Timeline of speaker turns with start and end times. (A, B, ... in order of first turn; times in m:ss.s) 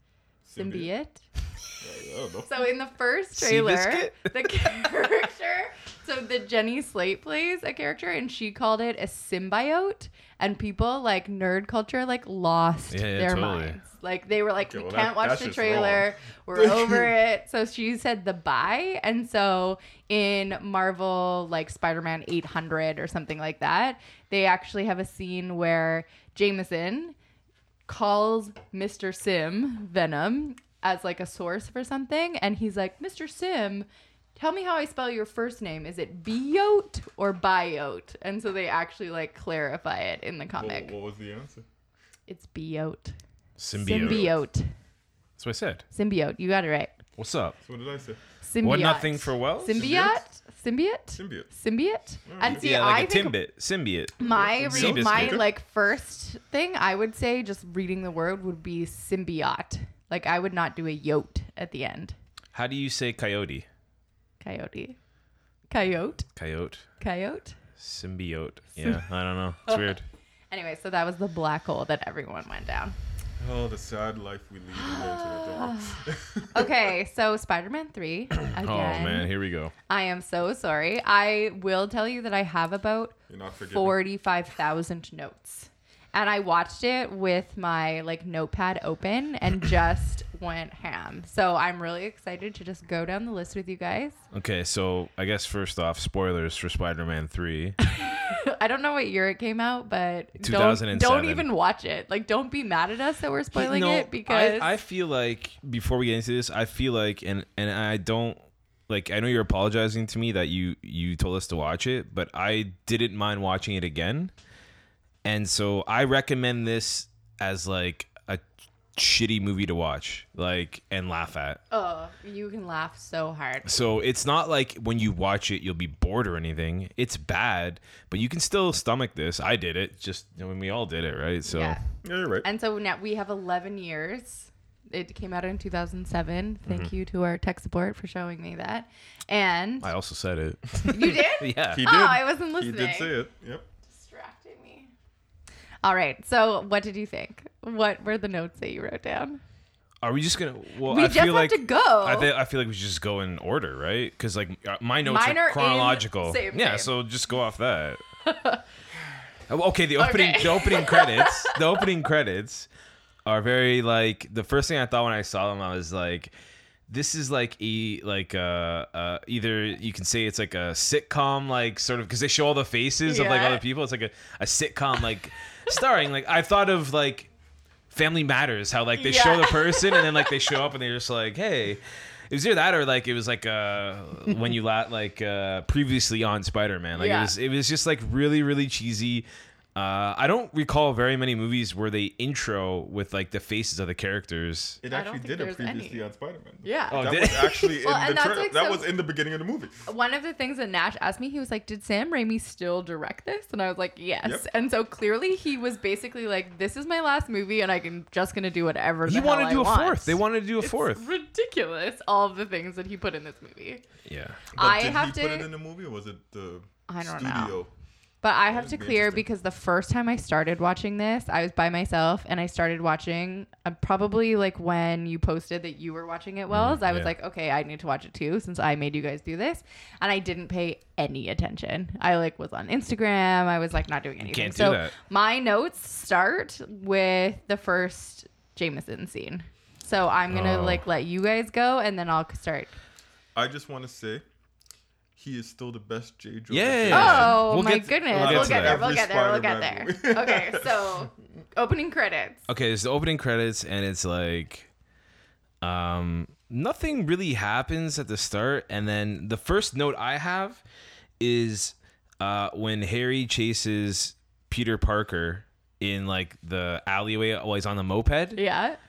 0:00.4-0:00.9 A
0:00.6-0:01.2 B
0:01.8-0:02.5 A
0:02.5-0:27.2 B
0:03.4-0:04.8 C
0:12.9-0:13.8 C
0:14.6-0:17.1 A
0:27.9-0:40.9 B
0:40.6-0:41.6 A
0:42.3-0:43.2 B
0:43.6-0:44.3 C
0:43.8-0:44.7 B
0:43.9-0:44.3 A
0:45.4-0:45.8 C
0:45.9-0:46.9 B
0:47.2-0:47.6 C
0:47.6-0:48.2 A
0:48.4-0:53.4 B
0:48.6-0:49.9 C
0:49.7-0:50.2 A
0:51.2-0:51.5 A
0:52.3-0:52.7 A
0:52.4-0:55.4 C
0:54.2-1:02.2 B
0:54.2-0:55.5 A
1:02.5-1:03.7 C
1:04.4-1:05.0 B
1:05.7-1:06.3 B
1:06.4-1:06.8 C
1:07.0-1:07.6 B
1:07.8-1:10.0 C
1:08.8-1:09.0 B
1:09.7-1:10.0 B
1:10.5-1:13.0 B
1:13.4-1:16.9 A
1:14.7-1:16.0 B
1:16.5-1:19.3 B
1:18.5-1:19.7 C
1:19.9-1:23.2 B
1:23.3-1:24.0 A
1:23.7-1:34.2 B
1:34.3-1:37.8 C
1:37.8-1:44.7 B
1:40.4-1:41.5 C
1:43.5-1:54.3 C
1:55.2-1:58.4 C
1:59.0-2:01.6 C
2:01.7-2:03.8 B
2:03.6-2:11.8 C
2:11.5-2:11.8 B
2:12.0-2:12.5 A
2:12.4-2:19.9 B
2:19.8-2:21.8 C
2:20.9-2:23.1 B
2:21.7-2:23.7 A
2:23.9-2:24.9 B
2:25.8-2:29.4 B
2:30.0-2:38.0 C
2:30.8-2:32.3 B
2:35.0-2:36.9 B
2:38.3-2:38.6 B
2:39.5-2:42.7 C
2:40.0-2:41.6 B
2:43.3-2:46.3 C
2:46.9-2:57.3 C
2:53.1-2:53.6 B
2:57.9-3:14.8 C
2:59.0-3:00.3 B
3:07.0-3:07.3 B
3:14.8-3:19.8 A
3:14.9-3:16.0 B
3:16.6-3:18.9 B
3:16.9-3:17.7 C
3:19.9-3:33.8 B
3:29.1-3:31.1 C
3:34.1-3:34.4 C
3:34.6-3:37.7 A
3:34.6-3:35.5 B
3:36.9-3:37.6 B
3:38.2-4:02.8 B
3:38.5-3:39.3 A
3:46.5-3:47.1 C
3:54.2-3:54.9 C
4:00.3-4:00.8 C
4:03.3-4:04.2 A
4:05.2-4:07.6 A
4:06.5-4:08.8 C
4:06.9-4:12.5 B
4:08.1-4:10.9 A
4:12.5-4:14.7 C
4:15.6-4:20.6 C
4:21.2-4:28.4 C
4:28.4-4:28.8 B